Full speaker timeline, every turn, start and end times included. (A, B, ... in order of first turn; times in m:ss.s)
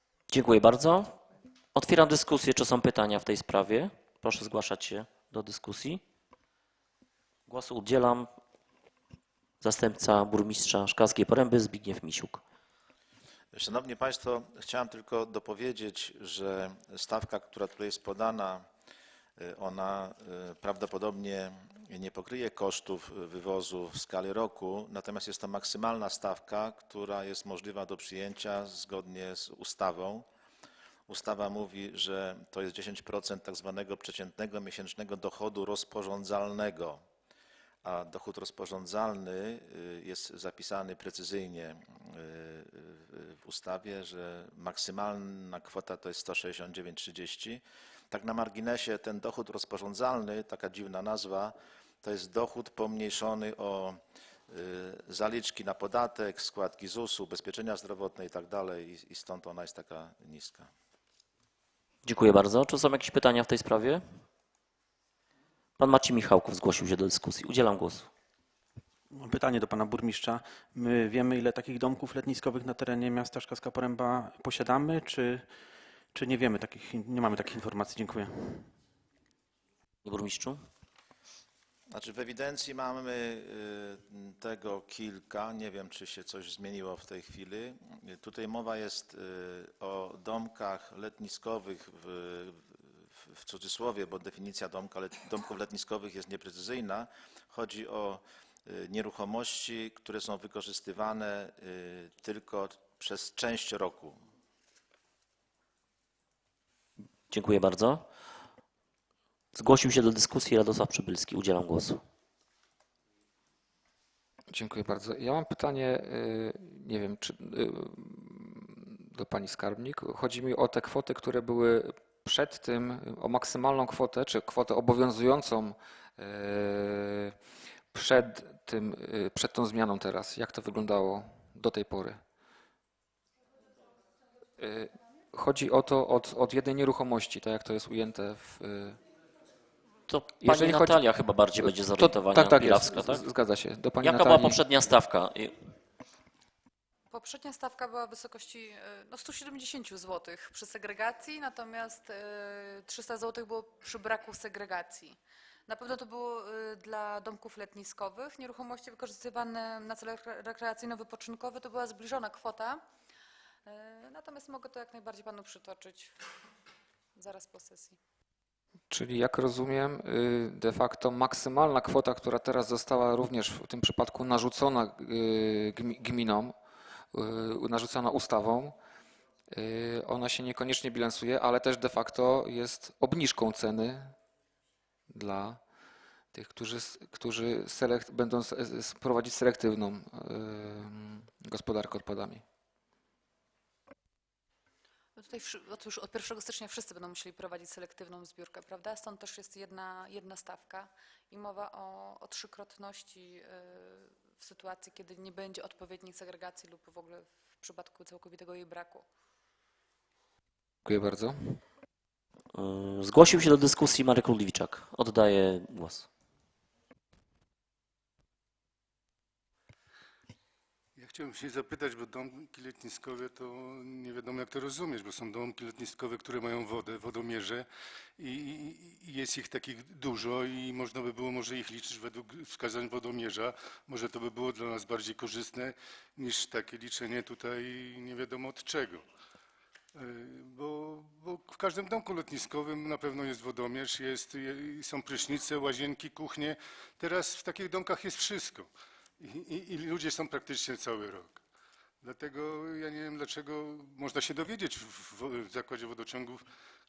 0:00.3-0:01.2 A
0:01.7-0:06.0 A
0:07.5-0:08.3 A
0:09.6-0:12.4 A
0:13.5-0:18.7 B
0:19.4-0:30.2 B
0:31.1-0:37.0 B
0:37.8-1:00.7 B
1:02.0-1:04.0 A
1:05.8-1:08.1 A
1:09.1-1:15.4 C
1:16.1-1:18.7 C
1:20.0-1:20.6 A
1:21.9-1:44.2 B
1:47.3-1:48.1 A
1:49.5-1:52.0 A
1:54.5-2:07.4 D
2:07.9-2:12.2 D
2:14.6-2:19.0 D
2:20.1-2:23.2 A
2:20.4-2:21.0 D
2:21.6-2:24.6 D
2:24.0-2:25.6 A
2:27.1-2:42.8 E
2:43.6-2:46.1 E
2:47.1-2:48.0 E
2:48.9-2:56.5 D
2:57.1-2:58.7 D
2:59.5-3:04.1 D
3:05.1-3:05.6 D
3:06.3-3:12.4 D
3:15.2-3:29.0 E
3:30.8-3:31.6 D
3:32.5-3:36.1 A
3:41.0-3:47.7 F
3:48.2-3:59.0 F
3:59.9-4:11.4 F
4:12.0-4:16.4 F